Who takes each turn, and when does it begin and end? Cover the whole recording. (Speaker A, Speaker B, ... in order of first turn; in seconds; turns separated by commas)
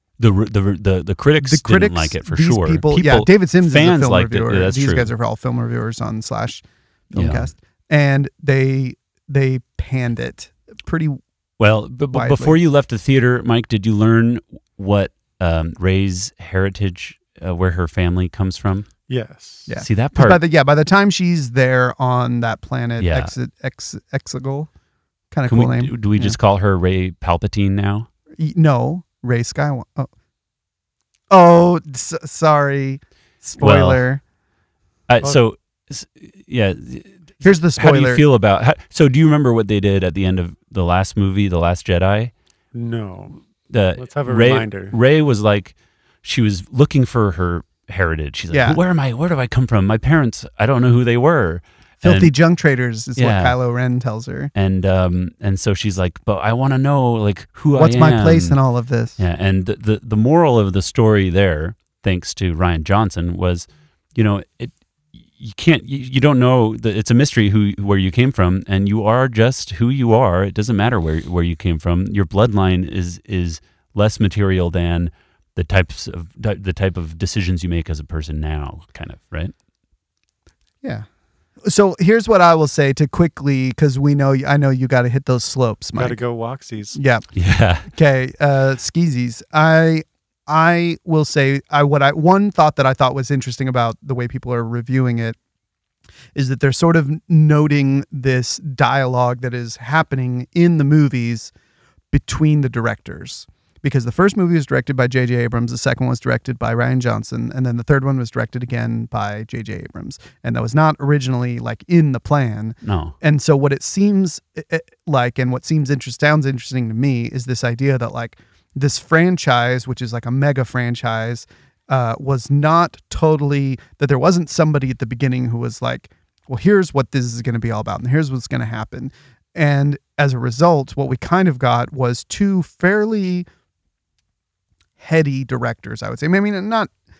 Speaker A: 0.2-5.1, Speaker B: 1.4-11.2, Speaker A: 7.1-7.5, Speaker A: 11.6-18.9, Speaker B: 12.1-12.6, Speaker C: 19.1-19.7, Speaker B: 19.7-24.7, Speaker A: 19.8-20.4, Speaker A: 23.0-23.3, Speaker B: 25.3-26.4, Speaker A: 25.5-28.1, Speaker B: 28.4-30.1, Speaker B: 31.3-34.2, Speaker A: 33.6-34.0, Speaker A: 35.1-42.3, Speaker B: 37.4-38.2, Speaker C: 42.7-43.4, Speaker A: 43.7-52.3, Speaker C: 44.0-45.0, Speaker B: 48.5-48.8, Speaker B: 52.0-54.5, Speaker A: 53.2-53.6, Speaker A: 54.5-58.6, Speaker B: 57.8-59.2, Speaker A: 59.2-79.5, Speaker B: 81.7-86.2, Speaker C: 86.0-87.0, Speaker B: 86.9-87.3, Speaker A: 87.3-87.9, Speaker B: 87.8-95.4, Speaker B: 96.3-101.5, Speaker B: 102.1-133.5, Speaker A: 112.8-113.2, Speaker B: 135.0-136.9